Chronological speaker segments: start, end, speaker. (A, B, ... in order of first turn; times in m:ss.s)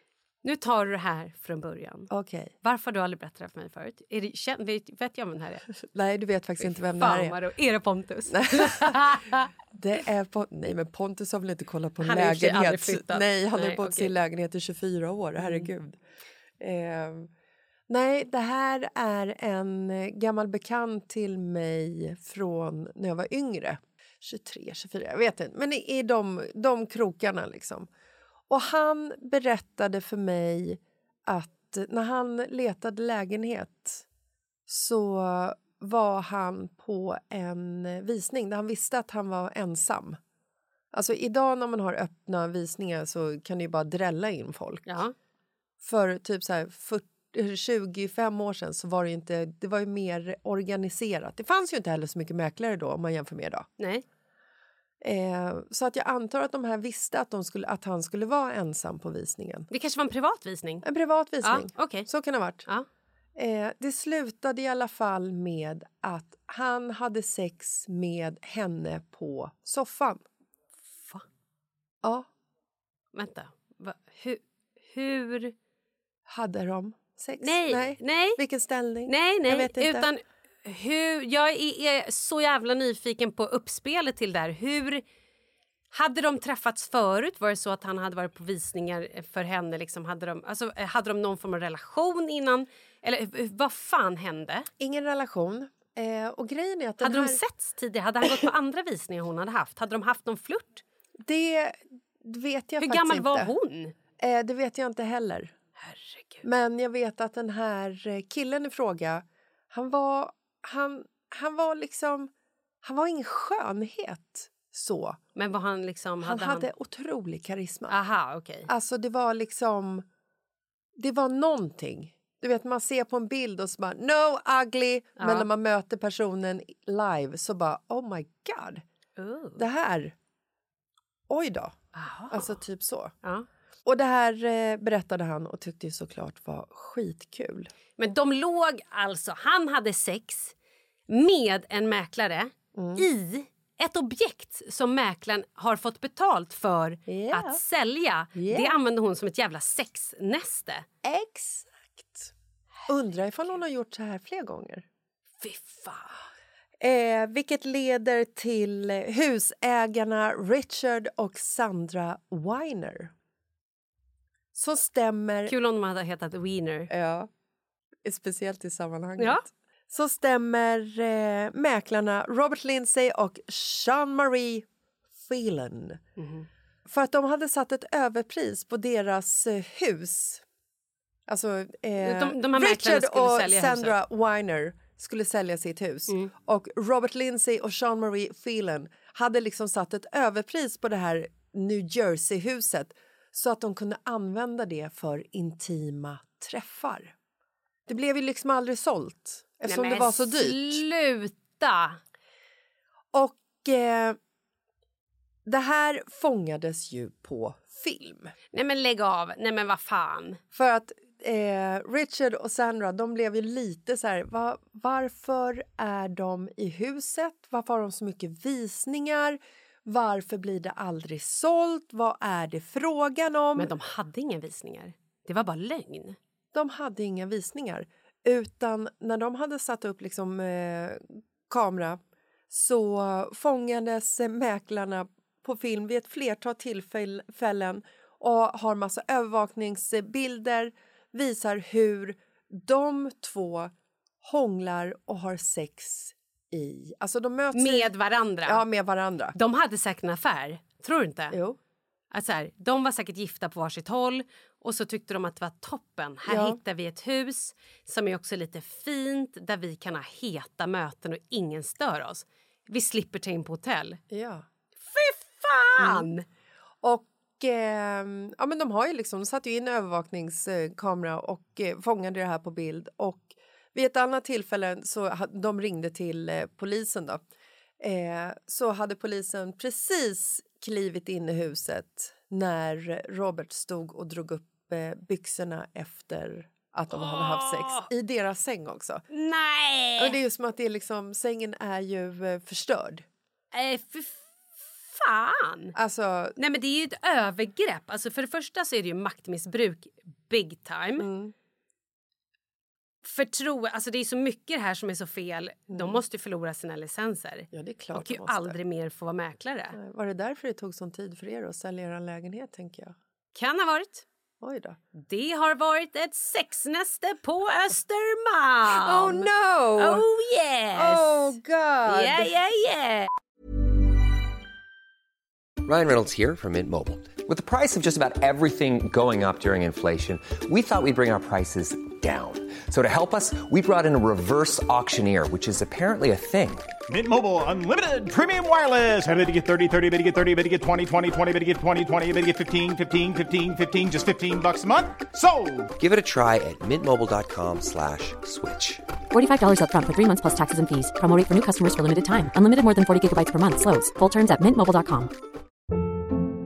0:00.4-0:02.1 A
0:02.1-0:02.5 B
0:02.6-0:05.7 A
0:05.9-0:07.4 B
0:07.0-0:09.5 A
0:08.3-0:09.2 B
0:09.7-0:16.0 B
0:12.0-0:14.1 A
0:15.4-0:15.7 A
0:16.6-0:17.3 B
0:17.9-0:27.9 B
0:28.5-0:34.0 B
0:34.7-0:40.2 B
0:40.9-0:45.0 B
0:44.9-0:45.2 A
0:45.8-0:53.7 B
0:53.8-0:54.0 A
0:55.0-0:59.7 B
0:59.7-1:00.9 A
1:00.8-1:02.7 B
1:01.4-1:02.1 A
1:03.4-1:10.2 B
1:13.1-1:15.5 A
1:16.3-1:20.1 B
1:17.4-1:18.4 A
1:19.1-1:25.0 A
1:25.9-1:34.7 A
1:34.8-1:37.4 B
1:37.0-1:40.8 A
1:41.2-1:43.5 B
1:42.8-1:43.9 A
1:44.2-1:45.5 B
1:45.8-1:46.4 A
1:46.4-1:52.3 B
1:52.8-1:55.2 B
1:55.4-1:56.7 A
1:56.2-1:58.0 B
1:57.9-1:58.7 A
1:58.7-2:00.1 B
2:01.0-2:08.8 B
2:05.2-2:05.5 A
2:09.2-2:09.6 A
2:09.6-2:10.2 B
2:11.3-2:11.8 B
2:12.0-2:12.5 A
2:12.3-2:13.2 B
2:13.8-2:17.7 B
2:18.0-2:20.5 A
2:21.1-2:30.9 A
2:22.8-2:23.1 B
2:27.1-2:27.6 B
2:28.4-2:28.8 B
2:31.0-2:32.3 B
2:32.9-2:34.8 B
2:35.4-2:36.2 A
2:36.8-2:43.1 B
2:44.6-2:45.6 B
2:45.5-2:46.9 A
2:46.9-2:47.3 B
2:48.0-2:54.7 B
2:49.2-2:49.4 A
2:55.3-2:56.0 B
2:56.2-2:56.5 A
2:56.9-3:00.4 B
3:01.3-3:17.1 B
3:02.0-3:04.0 A
3:17.9-3:20.8 B
3:19.7-3:22.0 A
3:23.1-3:24.2 B
3:25.5-3:28.3 B
3:28.5-3:30.4 A
3:30.5-3:43.7 B
3:43.6-3:46.2 A
3:46.5-4:07.9 B
4:07.5-4:08.6 A
4:08.4-4:09.4 B
4:09.4-4:11.4 A
4:11.3-4:11.6 B
4:12.1-4:24.0 A
4:16.3-4:16.6 B
4:24.1-4:24.5 B
4:24.9-4:26.2 A
4:25.8-4:26.1 B
4:26.8-4:37.2 B
4:37.8-4:49.0 B
4:46.9-4:47.9 A
4:49.1-4:50.2 A
4:50.0-4:53.1 B
4:53.5-4:55.8 A
4:55.8-4:56.4 B
4:56.4-5:01.1 A
5:01.0-5:01.3 B
5:03.0-5:09.8 A
5:05.7-5:06.0 B
5:07.5-5:08.6 B
5:09.7-5:13.0 B
5:13.4-5:14.1 A
5:14.4-5:14.8 B
5:15.0-5:21.3 A
5:18.7-5:20.1 B
5:20.7-5:22.3 B
5:21.8-5:23.1 A
5:25.6-5:36.7 C
5:36.9-5:45.7 D
5:45.8-5:48.8 C
5:49.1-5:55.1 E